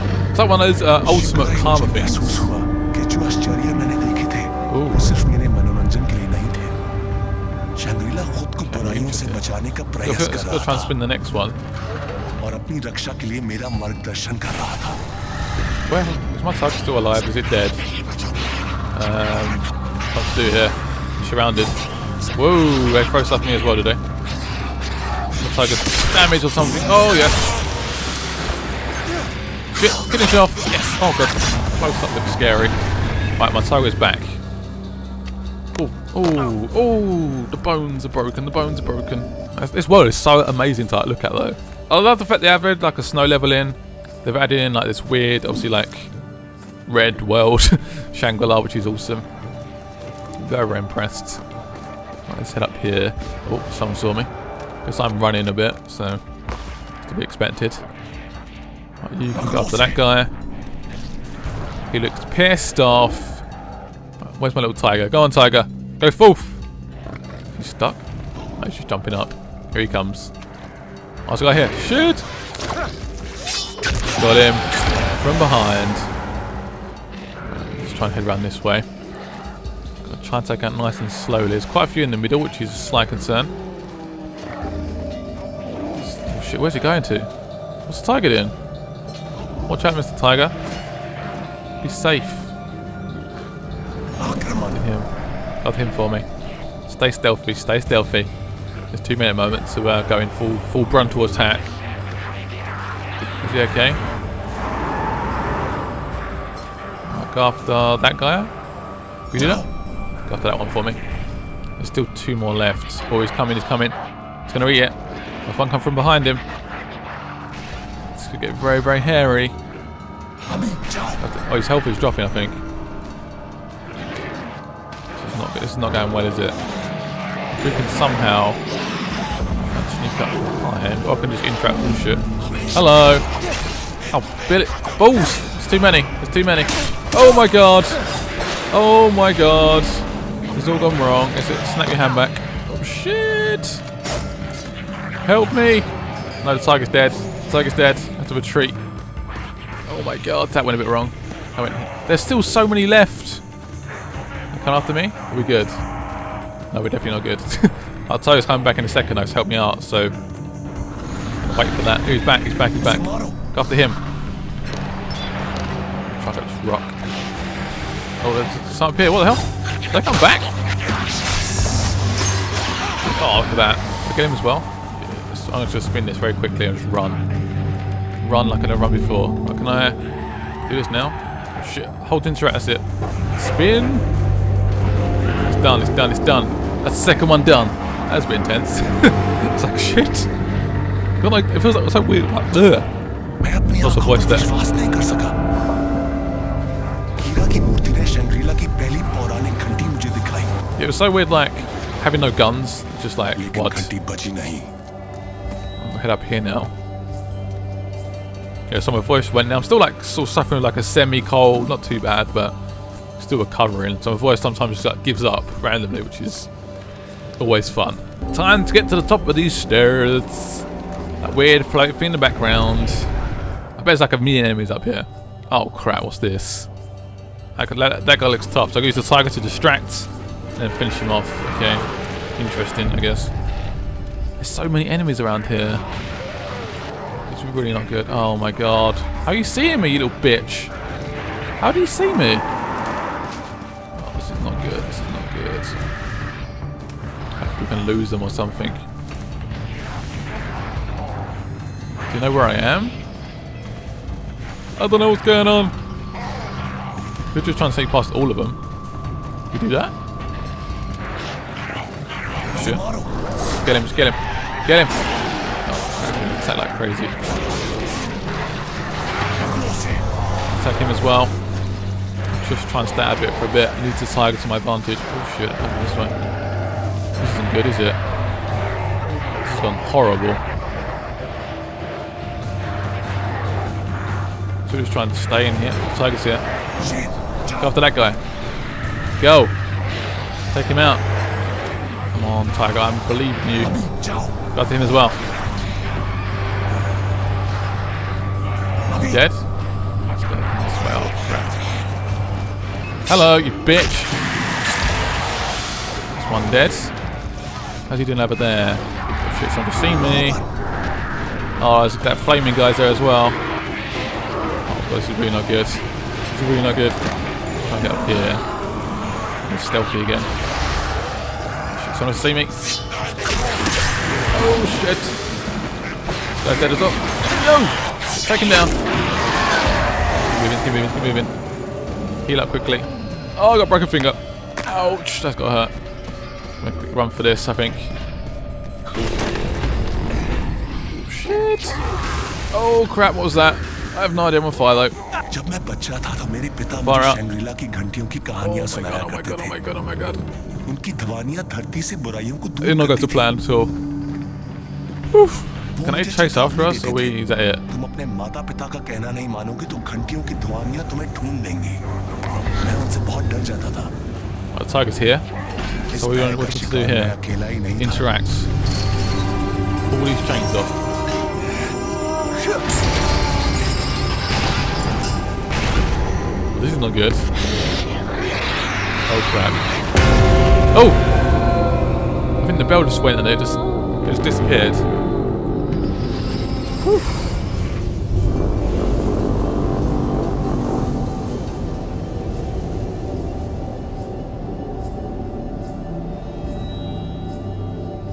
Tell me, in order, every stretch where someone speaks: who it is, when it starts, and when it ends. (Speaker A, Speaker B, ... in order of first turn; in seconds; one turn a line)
Speaker A: 0.3-2.5
Speaker B: 1.0-6.8
Speaker A: 4.7-5.1
Speaker B: 7.8-10.9
Speaker A: 8.6-9.4
Speaker A: 10.0-11.6
Speaker B: 12.4-15.0
Speaker A: 15.9-17.8
Speaker A: 18.9-21.8
Speaker A: 22.3-24.0
Speaker A: 25.4-27.5
Speaker A: 29.8-32.8
Speaker A: 33.4-34.4
Speaker A: 35.8-46.1
Speaker A: 46.9-49.3
Speaker A: 50.4-51.4
Speaker A: 52.3-54.3
Speaker A: 54.9-56.2
Speaker A: 57.0-57.8
Speaker A: 59.0-60.3
Speaker B: 59.4-60.0
Speaker A: 61.9-63.5
Speaker A: 64.2-66.6
Speaker A: 67.5-68.0
Speaker A: 68.6-70.3
Speaker A: 71.3-72.2
Speaker A: 74.2-76.1
Speaker A: 77.5-78.9
Speaker A: 80.0-83.5
Speaker A: 85.9-87.3
Speaker A: 87.9-88.5
Speaker A: 89.7-90.5
Speaker A: 91.8-92.5
Speaker B: 94.2-94.8
Speaker A: 94.5-95.1
Speaker A: 95.6-96.3
Speaker A: 96.9-98.3
Speaker A: 98.9-101.7
Speaker A: 103.4-104.0
Speaker A: 107.1-108.5
Speaker A: 109.3-109.7
Speaker B: 109.4-109.7
Speaker A: 110.2-111.0
Speaker A: 111.8-114.0
Speaker A: 114.5-116.4
Speaker A: 118.2-119.5
Speaker A: 121.2-122.6
Speaker A: 125.2-126.6
Speaker A: 127.5-128.6
Speaker A: 129.7-133.3
Speaker A: 134.1-138.0
Speaker A: 138.7-143.8
Speaker A: 145.2-145.9
Speaker A: 146.4-148.8
Speaker A: 149.9-153.4
Speaker A: 154.5-155.8
Speaker A: 156.7-160.2
Speaker A: 161.4-164.0
Speaker B: 162.8-163.4
Speaker A: 166.1-167.0
Speaker A: 168.2-170.5
Speaker A: 173.0-177.2
Speaker A: 178.2-180.0
Speaker A: 180.7-182.8
Speaker A: 183.4-184.1
Speaker A: 185.4-190.3
Speaker A: 191.2-192.9
Speaker B: 193.4-195.4
Speaker A: 193.8-194.5
Speaker B: 197.2-200.6
Speaker A: 200.8-203.9
Speaker B: 203.4-204.7
Speaker A: 205.8-206.7
Speaker A: 208.7-212.6
Speaker A: 213.2-216.5
Speaker A: 217.4-220.7
Speaker A: 221.2-223.1
Speaker A: 223.8-226.7
Speaker A: 227.6-231.9
Speaker A: 232.4-233.3
Speaker A: 234.4-235.8
Speaker A: 237.3-240.7
Speaker A: 241.6-242.5
Speaker A: 243.9-245.8
Speaker A: 247.4-248.8
Speaker A: 252.1-253.0
Speaker A: 254.8-255.7
Speaker A: 257.3-258.6
Speaker A: 259.5-259.9
Speaker A: 262.5-262.8
Speaker B: 262.5-263.1
Speaker A: 263.5-265.0
Speaker A: 265.6-267.2
Speaker B: 269.4-270.0
Speaker A: 270.5-271.3
Speaker A: 272.3-276.2
Speaker A: 277.2-278.0
Speaker A: 279.4-280.4
Speaker A: 284.7-286.4
Speaker B: 286.8-287.6
Speaker A: 287.6-288.2
Speaker A: 289.2-289.6
Speaker A: 290.5-291.0
Speaker A: 292.1-293.8
Speaker B: 293.7-294.4
Speaker A: 294.5-295.2
Speaker A: 298.9-299.5
Speaker A: 300.1-301.6
Speaker A: 303.1-304.2
Speaker A: 306.1-306.9
Speaker A: 307.9-310.4
Speaker B: 310.1-310.4
Speaker A: 311.6-313.4
Speaker A: 314.7-317.0
Speaker A: 317.6-318.4
Speaker A: 319.4-320.3
Speaker A: 321.7-322.8
Speaker A: 324.3-325.2
Speaker A: 326.4-328.8
Speaker A: 330.2-331.3
Speaker A: 332.2-335.7
Speaker A: 336.6-337.9
Speaker A: 340.9-341.8
Speaker A: 342.5-345.0
Speaker B: 345.3-349.6
Speaker A: 346.7-347.2
Speaker A: 348.4-350.2
Speaker B: 350.6-353.3
Speaker A: 352.6-353.7
Speaker A: 355.1-357.6
Speaker B: 355.8-361.8
Speaker B: 362.6-363.9
Speaker A: 364.5-365.2
Speaker B: 365.9-368.1
Speaker A: 365.9-367.2
Speaker A: 367.8-368.5
Speaker A: 369.9-370.8
Speaker A: 376.6-377.3
Speaker A: 379.1-379.6
Speaker A: 380.7-381.0
Speaker A: 382.4-384.9
Speaker A: 386.8-387.3